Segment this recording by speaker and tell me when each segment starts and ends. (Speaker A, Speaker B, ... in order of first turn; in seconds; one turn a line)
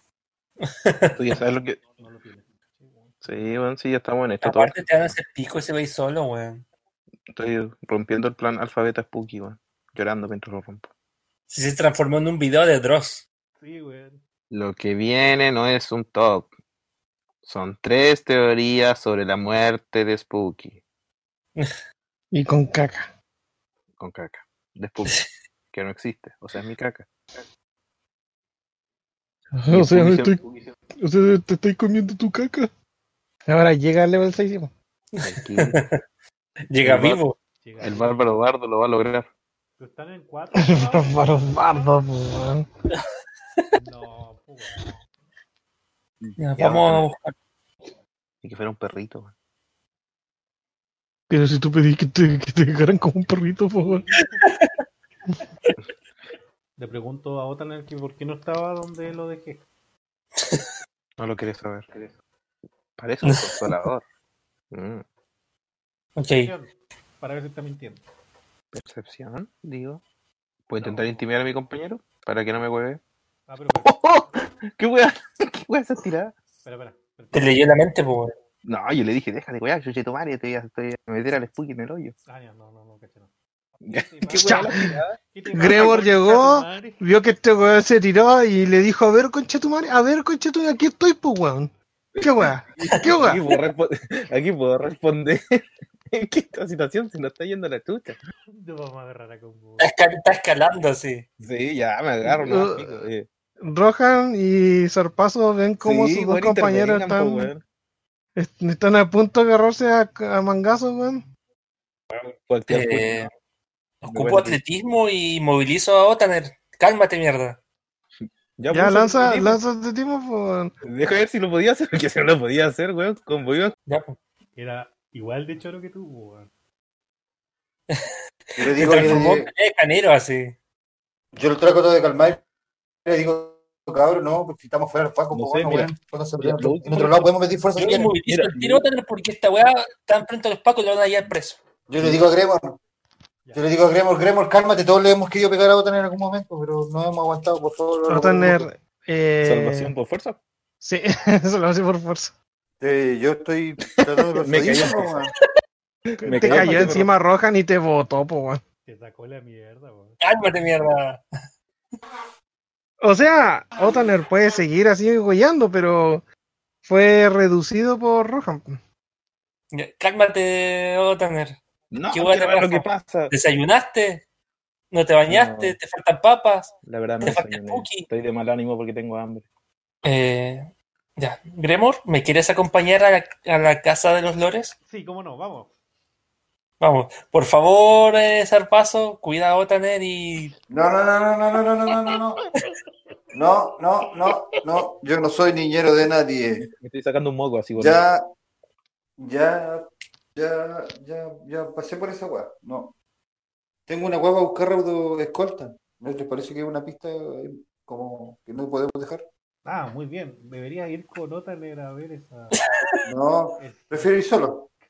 Speaker A: 0.6-1.1
Speaker B: 1.1-1.8
Speaker C: 2.0-3.3
Speaker B: 3.2-4.8
Speaker A: 4.4-6.6
Speaker B: 7.3-10.9
Speaker A: 11.5-13.2
Speaker C: 13.6-14.2
Speaker B: 14.5-16.5
Speaker B: 17.4-20.8
Speaker D: 22.3-23.1
Speaker B: 24.0-25.2
Speaker B: 25.7-27.1
Speaker D: 29.5-30.4
Speaker B: 29.7-30.5
Speaker D: 31.0-32.7
Speaker D: 33.5-34.7
Speaker A: 35.1-36.0
Speaker B: 35.2-35.8
Speaker A: 36.7-37.4
Speaker B: 36.8-37.2
Speaker C: 37.6-38.4
Speaker B: 37.8-39.3
Speaker C: 39.8-41.6
Speaker D: 40.6-42.7
Speaker C: 43.7-44.9
Speaker B: 46.2-47.1
Speaker A: 46.4-47.3
Speaker B: 48.4-49.3
Speaker D: 51.3-54.0
Speaker C: 53.8-54.5
Speaker A: 54.4-54.8
Speaker C: 56.8-59.6
Speaker A: 60.4-60.7
Speaker B: 61.2-62.1
Speaker B: 63.0-64.0
Speaker A: 63.2-63.5
Speaker B: 64.7-65.0
Speaker A: 66.2-66.5
Speaker C: 66.4-68.0
Speaker B: 68.7-70.0
Speaker B: 70.7-73.0
Speaker C: 70.8-71.3
Speaker C: 73.5-74.0
Speaker B: 73.8-76.3
Speaker C: 76.7-77.8
Speaker A: 77.3-78.3
Speaker B: 78.6-82.1
Speaker C: 82.3-83.3
Speaker B: 83.9-85.2
Speaker C: 83.9-84.7
Speaker D: 84.4-85.0
Speaker C: 85.3-87.0
Speaker D: 85.5-93.4
Speaker B: 92.2-95.4
Speaker A: 92.8-93.2
Speaker B: 96.1-98.2
Speaker C: 98.5-99.9
Speaker A: 99.8-101.2
Speaker B: 101.4-103.3
Speaker D: 102.2-103.0
Speaker D: 103.6-107.5
Speaker B: 105.8-107.6
Speaker D: 108.4-111.3
Speaker B: 112.2-113.3
Speaker A: 112.7-113.3
Speaker A: 114.0-117.6
Speaker B: 114.1-114.6
Speaker B: 118.6-119.6
Speaker D: 118.7-120.7
Speaker B: 120.8-123.8
Speaker A: 123.9-124.2
Speaker C: 124.6-126.5
Speaker A: 127.9-130.5
Speaker E: 128.6-129.5
Speaker E: 131.4-132.4
Speaker E: 133.1-138.1
Speaker B: 135.3-137.3
Speaker A: 137.8-141.6
Speaker B: 138.3-138.8
Speaker E: 141.9-142.8
Speaker E: 143.5-148.6
Speaker D: 148.1-149.9
Speaker B: 149.4-150.4
Speaker D: 150.8-152.3
Speaker E: 152.8-155.3
Speaker B: 154.0-155.1
Speaker B: 156.1-157.1
Speaker D: 156.2-158.6
Speaker C: 158.9-160.2
Speaker A: 160.2-161.2
Speaker D: 163.0-166.2
Speaker D: 166.8-168.8
Speaker A: 169.7-171.6
Speaker B: 171.9-173.3
Speaker A: 172.1-174.2
Speaker A: 174.9-178.1
Speaker B: 175.3-175.8
Speaker B: 176.8-179.5
Speaker A: 180.0-184.8
Speaker C: 184.9-185.8
Speaker A: 186.8-190.6
Speaker E: 190.7-192.4
Speaker A: 192.1-192.7
Speaker E: 193.3-196.6
Speaker B: 196.6-198.0
Speaker E: 197.7-198.2
Speaker E: 199.2-202.9
Speaker E: 203.9-209.2
Speaker C: 209.7-212.5
Speaker A: 212.5-213.0
Speaker E: 213.1-214.7
Speaker C: 213.6-214.2